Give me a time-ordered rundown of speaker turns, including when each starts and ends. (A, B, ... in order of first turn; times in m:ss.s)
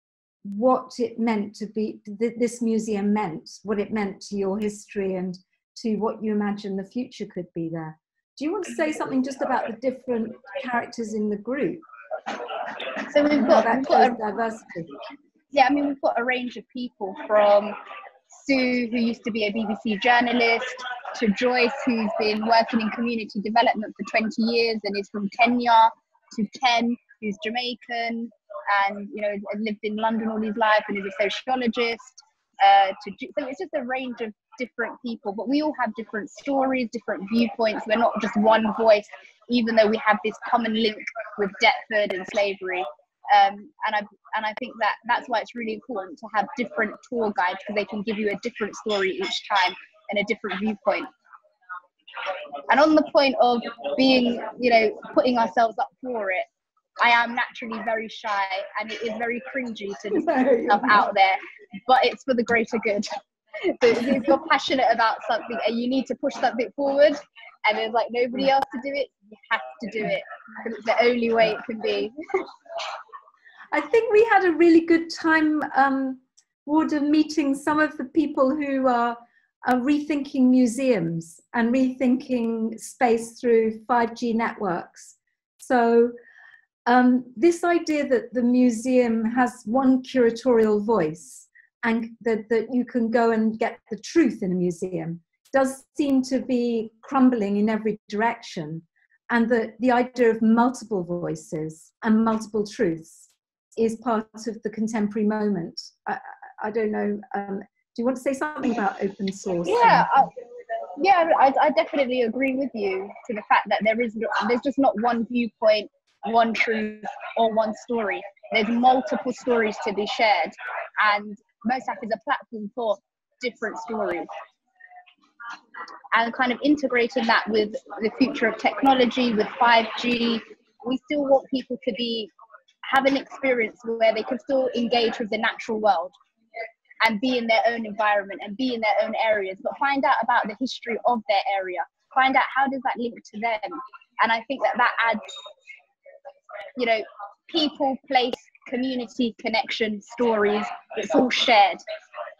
0:00.4-0:11.8 A
0:13.1-0:14.2 B
0:13.4-0:14.9 A
0:15.5-0:17.8 B
0:18.3-0:51.1 B
0:52.7-0:56.5 B
0:57.0-1:03.1 B
1:00.1-1:01.0 A
1:03.8-1:12.1 B
1:13.7-1:26.1 A
1:26.8-1:50.1 A
1:49.6-1:50.3 B
1:51.0-2:04.3 B
2:06.1-2:12.3 B
2:12.9-2:16.1 B
2:17.0-2:25.2 B
2:26.8-2:31.8 B